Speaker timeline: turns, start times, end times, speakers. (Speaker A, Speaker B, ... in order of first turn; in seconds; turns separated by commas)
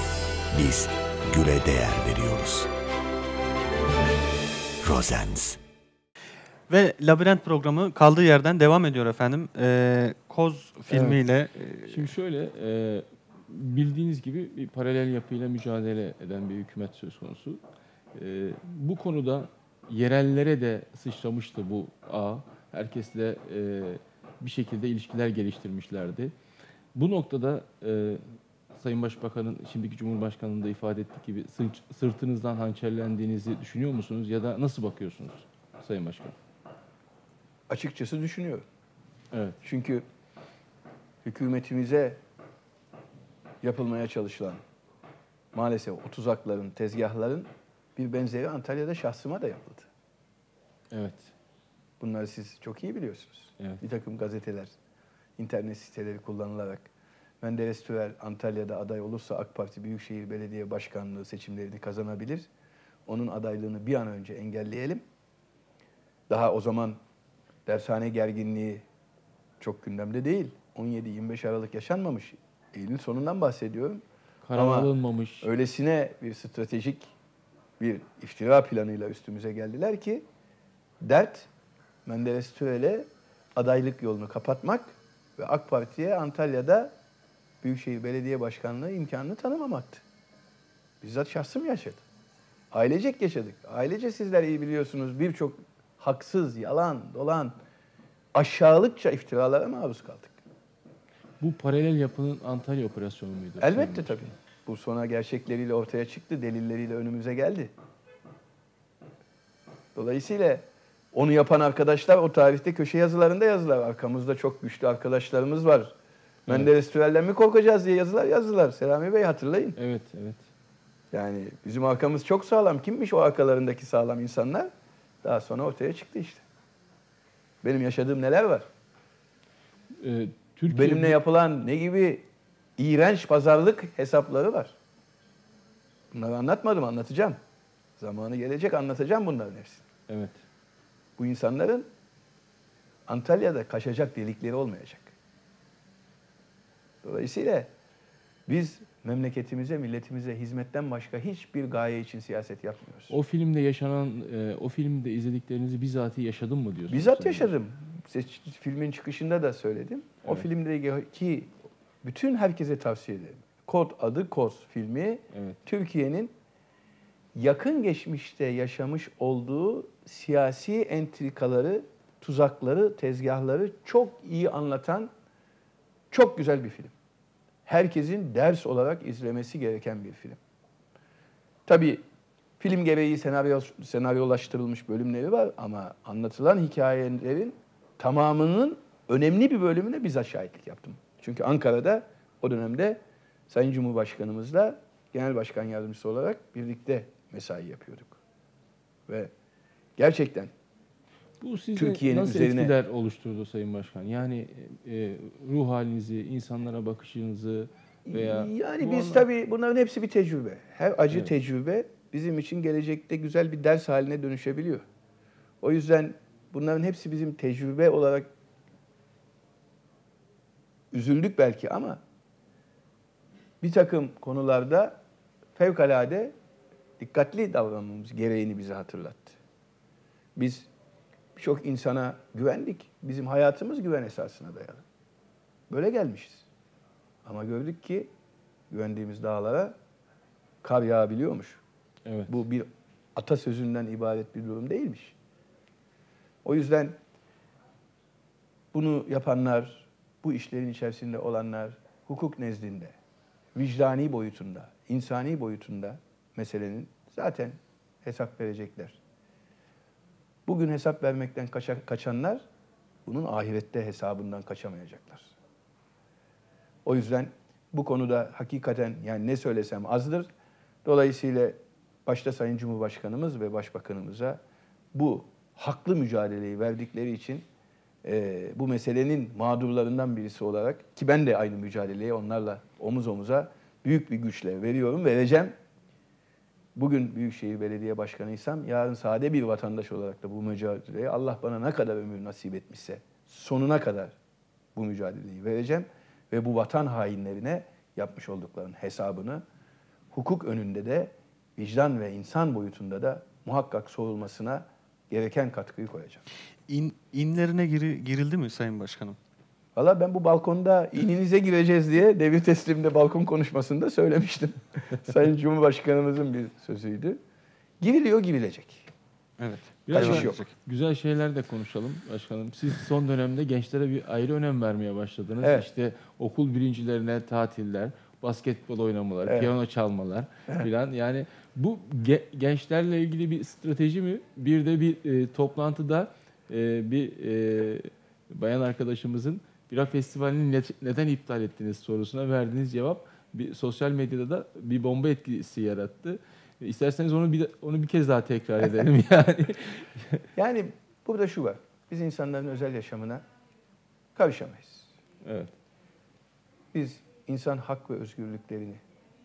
Speaker A: 0.5-2.7, Speaker A: 4.8-5.6, Speaker B: 6.7-12.1, Speaker C: 11.9-17.6, Speaker C: 18.1-26.3, Speaker C: 26.9-36.4, Speaker D: 37.7-38.6, Speaker C: 39.3-39.6, Speaker D: 39.6-40.0, Speaker D: 41.2-42.2, Speaker D: 43.6-44.6, Speaker D: 45.5-49.9, Speaker C: 50.9-51.3, Speaker D: 52.0-54.7, Speaker D: 55.4-56.9, Speaker D: 57.4-62.5, Speaker D: 63.0-65.0, Speaker D: 66.3-67.0, Speaker D: 67.7-68.8, Speaker D: 69.6-74.0, Speaker C: 74.4-75.5, Speaker D: 74.5-74.9, Speaker D: 75.4-77.1, Speaker D: 77.8-80.2, Speaker D: 81.0-81.5, Speaker D: 82.0-86.9, Speaker D: 87.6-90.0, Speaker D: 91.0-92.0, Speaker D: 92.7-97.5, Speaker D: 98.3-100.4, Speaker C: 101.4-104.3, Speaker D: 103.6-107.7, Speaker D: 109.9-115.9, Speaker D: 116.5-119.8, Speaker C: 119.8-120.5, Speaker D: 121.1-124.7, Speaker D: 125.2-126.4, Speaker D: 127.6-128.7, Speaker C: 130.0-131.2, Speaker D: 130.7-132.2, Speaker D: 132.8-134.7, Speaker D: 136.1-137.4, Speaker D: 138.0-139.8, Speaker C: 140.1-140.4, Speaker D: 141.2-141.9, Speaker D: 143.1-145.1, Speaker D: 147.0-147.7, Speaker D: 148.5-153.1, Speaker C: 153.1-157.5, Speaker D: 156.9-166.3, Speaker C: 165.3-165.6, Speaker D: 167.3-175.1, Speaker D: 176.1-176.9, Speaker D: 177.7-180.4, Speaker D: 181.7-182.0, Speaker D: 182.6-198.2, Speaker D: 200.0-200.5, Speaker C: 201.4-209.2, Speaker D: 201.7-202.7, Speaker D: 208.1-214.8, Speaker D: 215.6-218.3, Speaker D: 220.9-222.0, Speaker D: 223.6-225.0, Speaker D: 225.6-226.3, Speaker D: 227.0-229.4, Speaker D: 230.3-230.7, Speaker D: 231.3-234.8, Speaker D: 235.7-236.4, Speaker D: 237.2-238.1, Speaker D: 238.7-239.7, Speaker D: 240.6-241.6, Speaker C: 242.1-242.3, Speaker D: 242.3-245.2, Speaker D: 246.4-247.0, Speaker D: 248.7-252.9, Speaker D: 253.5-259.0, Speaker D: 260.4-262.4, Speaker D: 263.0-265.3, Speaker D: 266.8-270.3, Speaker D: 270.8-274.4, Speaker D: 274.9-277.4, Speaker D: 278.0-285.5, Speaker D: 286.7-294.1, Speaker D: 294.7-299.4, Speaker D: 300.1-306.2, Speaker B: 306.7-309.2, Speaker D: 309.7-317.2, Speaker D: 317.8-318.9, Speaker B: 319.4-320.5, Speaker C: 319.9-350.2, Speaker D: 319.9-320.4, Speaker D: 325.4-325.7, Speaker D: 329.2-329.5, Speaker D: 350.4-353.2, Speaker D: 354.1-354.9, Speaker C: 355.2-355.5, Speaker D: 356.7-358.8